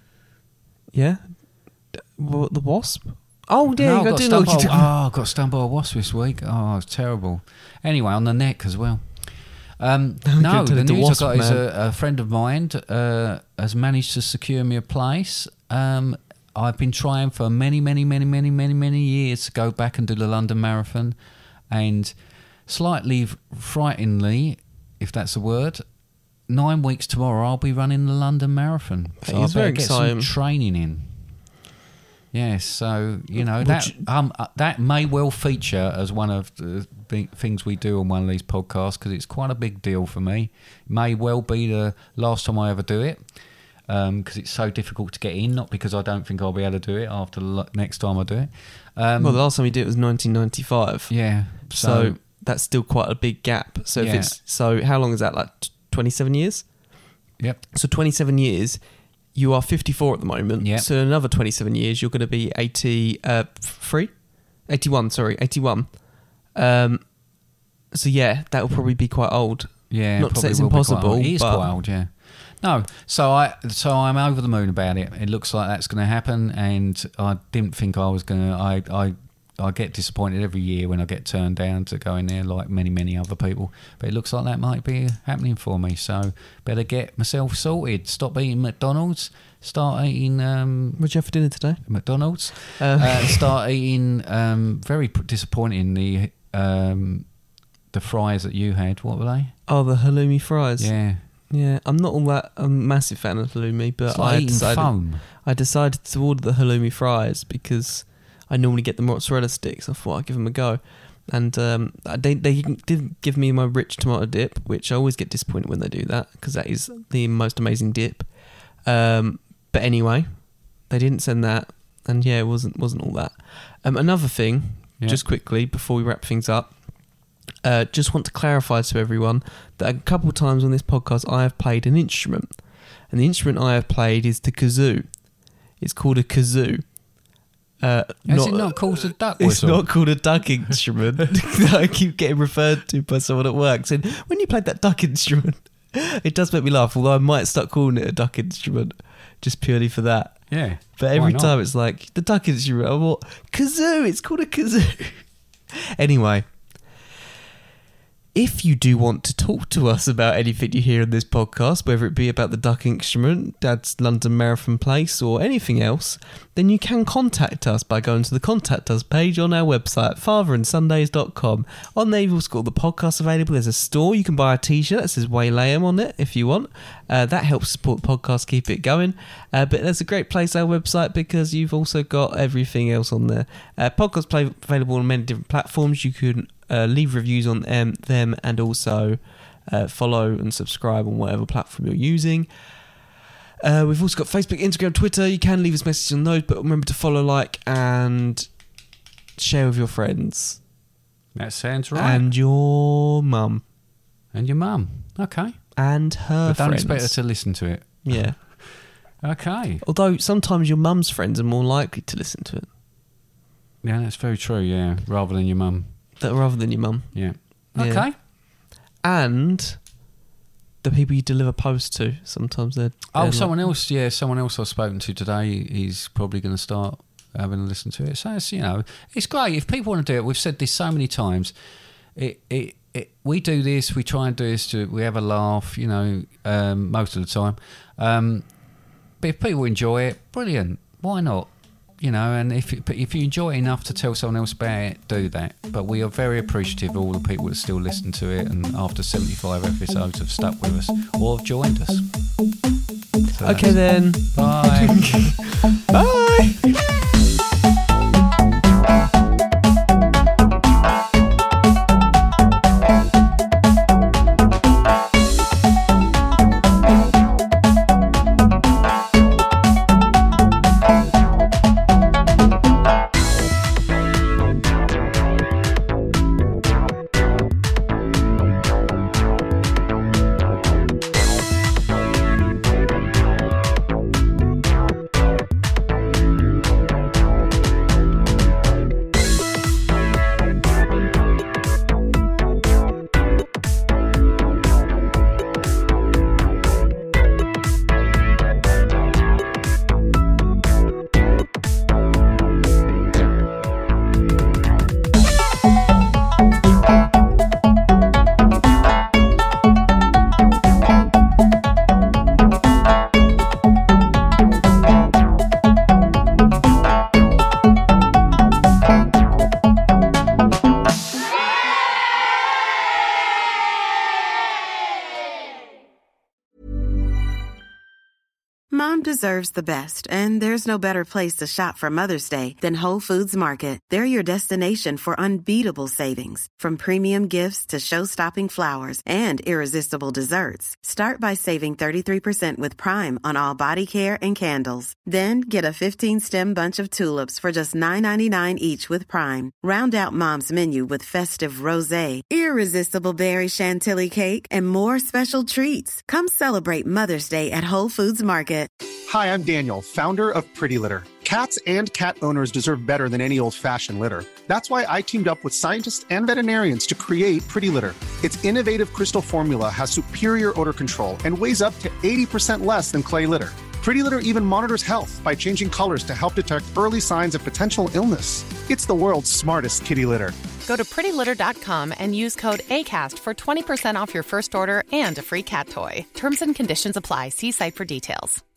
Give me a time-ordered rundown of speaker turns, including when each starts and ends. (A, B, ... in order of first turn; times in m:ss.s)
0:00.9-0:04.9 A
0:03.8-0:21.2 B
0:10.2-0:11.6 A
0:21.7-0:22.1 B
0:22.7-0:25.8 B
0:26.5-0:31.2 B
0:29.2-0:30.3 A
0:32.3-0:43.2 B
0:33.6-0:34.0 A
0:43.9-0:49.4 B
0:49.2-0:51.1 A
0:51.1-0:52.2 B
0:51.6-0:56.7 A
0:54.0-0:54.3 B
0:57.7-0:58.8 A
0:59.3-1:04.1 A
1:00.6-1:00.9 B
1:04.6-1:06.0 A
1:06.5-1:07.0 A
1:07.9-1:11.7 A
1:09.9-1:31.0 B
1:31.0-1:31.8 A
1:31.8-1:37.3 B
1:32.7-1:33.5 A
1:37.9-1:39.5 B
1:39.7-2:06.7 A
1:40.8-1:41.2 B
1:44.1-1:45.2 B
2:07.6-2:12.6 A
2:13.1-2:16.9 A
2:17.8-2:35.3 A
2:18.3-2:20.2 B
2:30.5-2:31.5 B
2:36.0-2:36.5 A
2:38.3-3:12.5 A
3:13.6-3:18.5 A
3:19.4-3:20.6 A
3:21.3-3:22.3 B
3:21.9-3:23.6 A
3:24.3-3:25.6 B
3:25.8-3:27.1 A
3:26.4-3:28.7 B
3:28.0-3:28.4 A
3:29.2-3:29.8 B
3:29.8-3:32.7 A
3:33.8-3:35.9 B
3:36.2-3:37.2 A
3:37.1-3:38.1 B
3:37.8-3:38.1 A
3:39.0-3:39.8 A
3:40.8-3:43.5 A
3:43.1-3:51.5 B
3:52.2-3:58.4 B
3:59.2-4:12.1 B
4:13.3-4:15.4 B
4:13.3-4:16.8 A
5:28.7-5:58.7 C
5:59.1-6:20.4 D
6:20.6-6:28.4 E